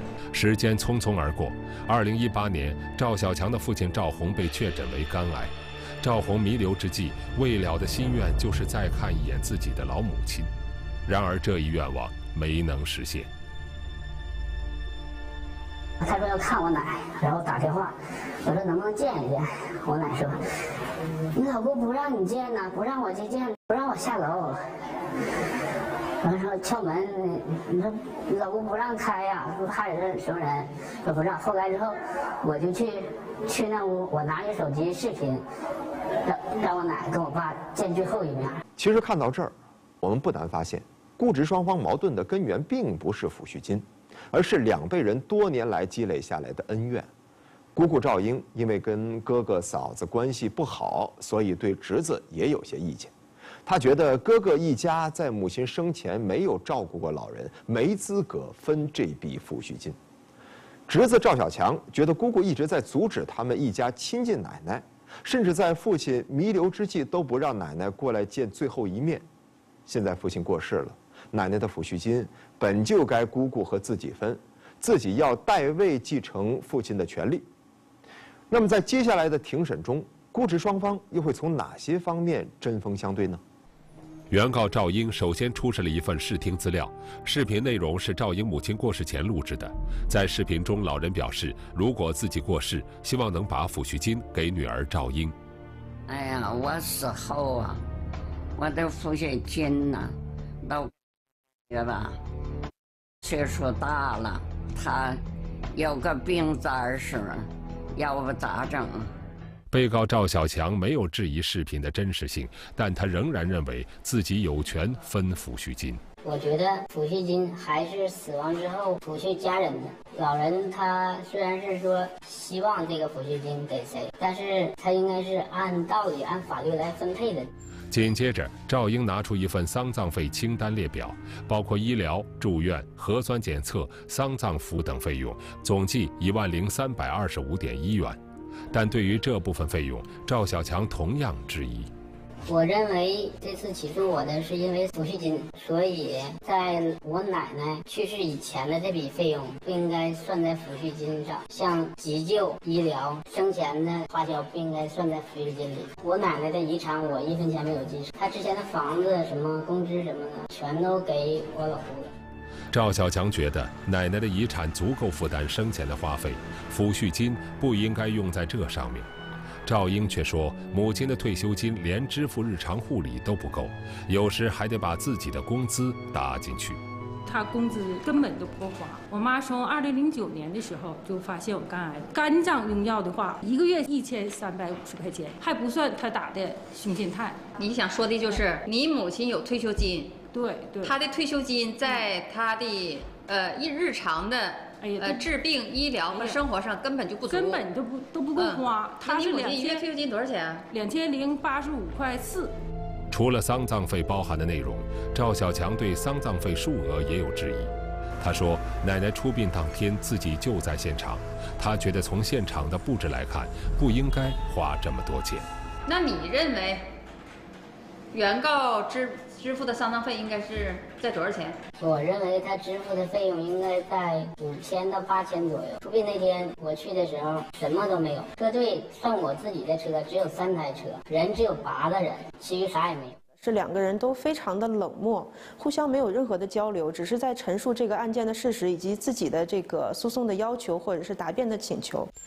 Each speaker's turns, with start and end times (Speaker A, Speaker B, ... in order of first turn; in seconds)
Speaker A: 0.3-10.5, 11.1-13.3, 84.3-95.3, 109.7-116.0, 127.9-138.2, 138.7-141.9, 162.7-169.1, 169.7-176.8, 203.1-215.5
Speaker B: 16.0-20.4, 21.3-24.7, 26.2-35.4, 36.2-38.6, 116.2-127.5, 142.5-162.1, 221.8-233.2
Speaker C: 38.8-47.1, 47.7-53.1, 53.6-60.0, 60.9-69.2, 69.8-77.5, 78.5-83.4
Speaker D: 96.1-97.8, 98.6-100.9, 101.7-102.2, 103.2-105.2, 105.7-109.1
Speaker E: 177.2-187.4, 190.3-191.0, 194.8-195.3, 196.1-196.4, 197.3-199.9, 200.7-202.5
Speaker F: 187.6-190.2, 190.8-197.6, 198.3-200.7, 215.8-216.9, 218.1-221.6
Speaker G: 233.4-242.1